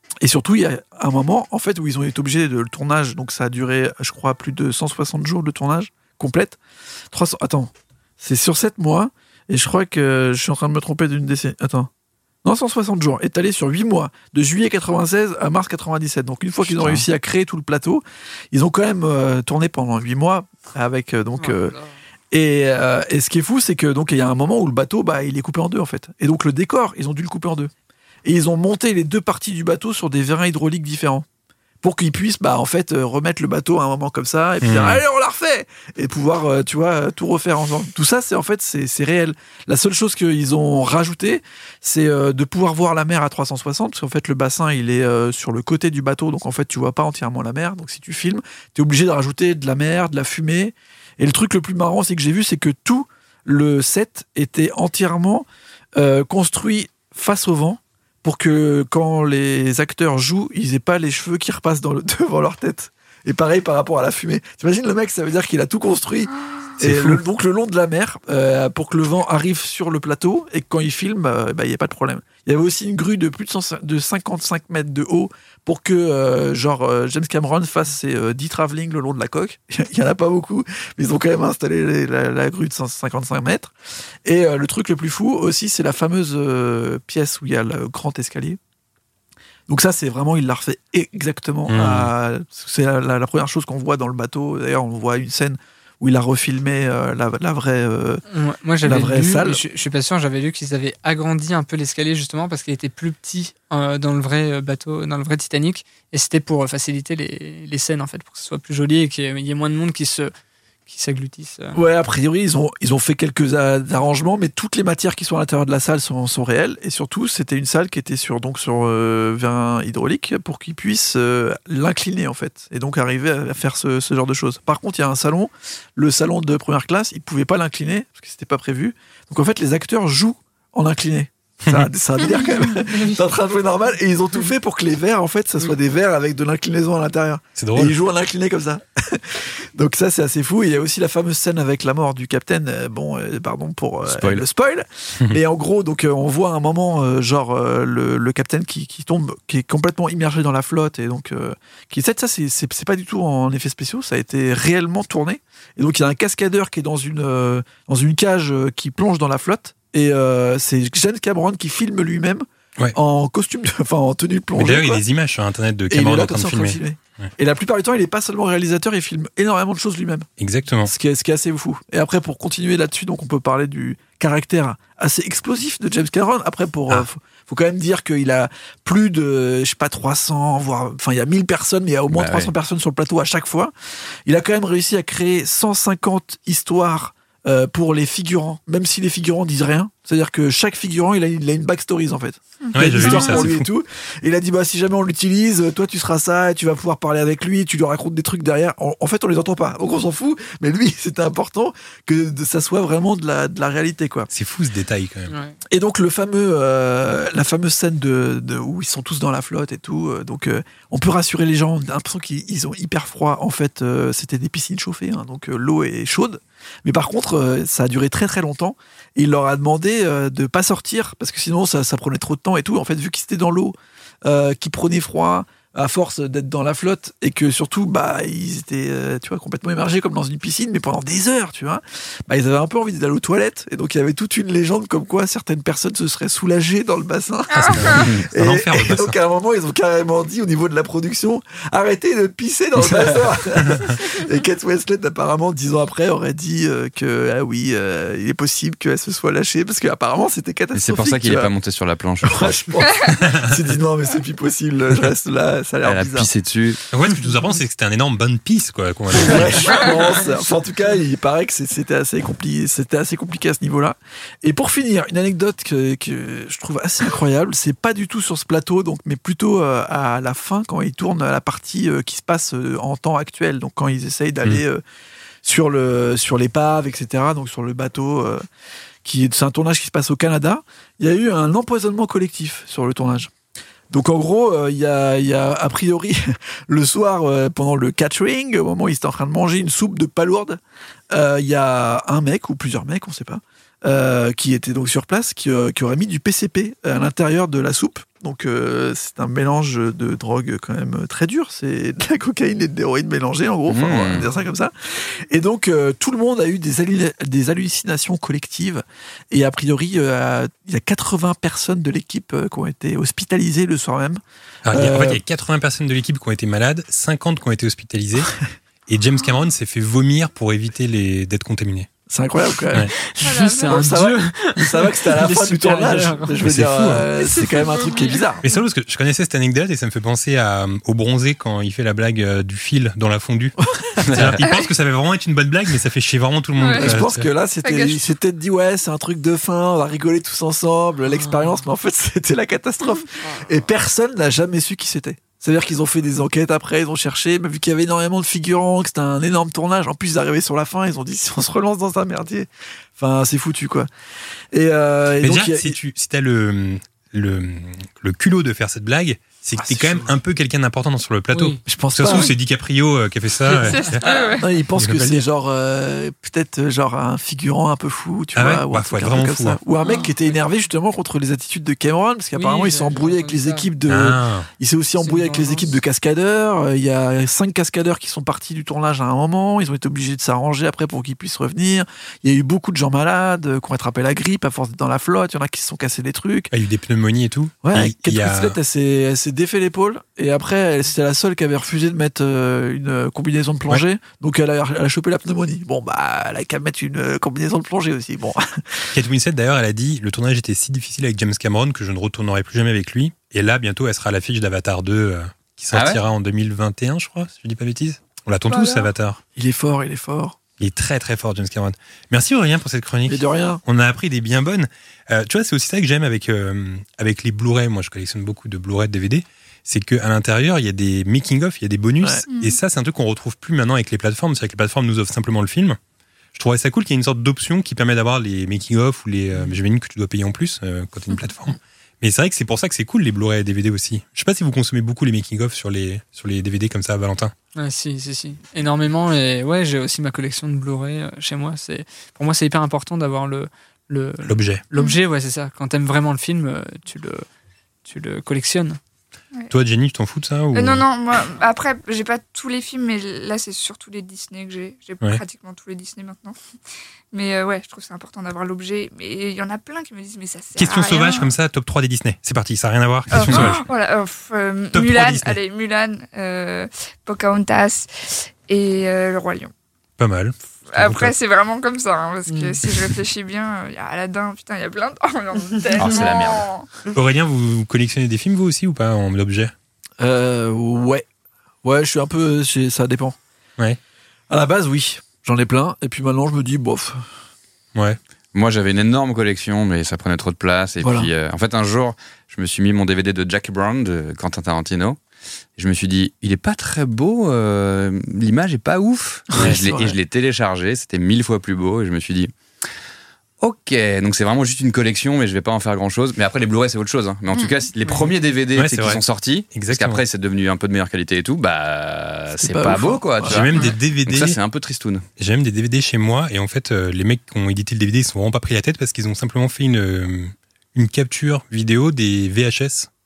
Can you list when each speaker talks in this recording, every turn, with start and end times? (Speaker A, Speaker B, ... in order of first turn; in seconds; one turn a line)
Speaker A: 0.2-6.6
Speaker A: 7.1-11.9
Speaker A: 12.4-21.8
Speaker B: 21.4-21.9
Speaker A: 22.3-27.7
Speaker A: 28.2-31.2
Speaker A: 31.8-83.7
Speaker C: 34.6-35.0
Speaker D: 66.4-66.7
Speaker C: 66.8-67.2
Speaker A: 84.2-88.6
Speaker A: 89.7-98.2
Speaker C: 91.7-92.1
Speaker B: 98.3-110.3
Speaker A: 98.8-99.6
Speaker B: 110.9-111.8
Speaker A: 111.7-165.0
Speaker C: 137.6-137.9
Speaker E: 144.0-144.4
Speaker C: 164.6-167.3
Speaker A: 165.9-170.3
Speaker C: 170.4-170.9
Speaker A: 170.8-183.7
Speaker E: 182.1-182.5
Speaker A: 184.2-204.3
Speaker D: 192.6-193.5
Speaker C: 192.7-193.7
Speaker C: 204.3-205.3
Speaker B: 205.3-205.5
Speaker A: 205.7-251.5
Speaker D: 237.5-238.1
Speaker C: 237.6-239.2
Speaker E: 250.7-252.6
Speaker A: 252.2-256.3
Speaker E: 255.8-256.8
Speaker C: 256.9-259.7
Speaker A: 259.1-274.8
Speaker A: 275.4-278.4
Speaker A: 279.0-283.3
Speaker A: 283.9-290.6
Speaker A: 291.1-314.2
Speaker E: 303.7-304.3
Speaker C: 314.6-318.4
Speaker A: 314.7-315.2
Speaker C: 318.9-321.9
Speaker A: 322.1-322.9
Speaker B: 323.0-326.4
Speaker D: 323.2-323.9
Speaker A: 323.7-328.4
Speaker C: 326.4-327.0
Speaker D: 327.4-328.3
Speaker C: 328.4-337.3
Speaker A: 333.7-334.0
Speaker E: 334.1-334.4
Speaker D: 334.4-334.6
Speaker D: 336.6-337.0
Speaker A: 336.7-353.9
Speaker D: 337.6-338.0
Speaker A: 354.5-355.8
Speaker C: 355.2-364.0
Speaker A: 359.6-360.1
Speaker B: 361.3-361.6
Speaker A: 361.6-362.3
Speaker D: 363.5-364.5
Speaker A: 364.4-386.5
Speaker C: 364.8-365.1
Speaker C: 368.3-369.6
Speaker B: 372.3-373.7
Speaker C: 373.9-374.5
Speaker B: 375.0-375.7
Speaker C: 386.5-388.6
Speaker A: 387.6-398.8
Speaker C: 398.9-409.2
Speaker E: 405.7-406.0
Speaker D: 408.5-408.9
Speaker A: 409.4-410.4
Speaker C: 410.6-425.8
Speaker A: 413.1-413.6
Speaker A: 422.0-422.2
Speaker D: 422.3-422.6
Speaker C: 426.3-437.3
Speaker B: 437.6-447.2
Speaker C: 444.2-444.6
Speaker B: 447.8-448.8
Speaker C: 449.5-450.8
Speaker D: 450.5-456.4
Speaker D: 457.1-461.3
Speaker C: 460.6-463.6
Speaker D: 463.1-469.5
Speaker C: 464.7-465.4
Speaker C: 470.0-471.1
Speaker D: 470.7-476.6
Speaker E: 475.8-476.5
Speaker C: 476.9-479.5
Speaker A: 480.0-481.0
Speaker A: 481.6-483.2
Speaker A: 484.3-487.1
Speaker E: 488.3-495.0
Speaker A: 490.8-491.1
Speaker E: 495.6-502.3
Speaker A: 499.3-499.9
Speaker C: 499.3-499.6
Speaker E: 503.4-515.0
Speaker C: 508.6-509.0
Speaker C: 509.5-510.0
Speaker A: 512.4-513.4
Speaker C: 513.2-514.4
Speaker C: 515.2-522.9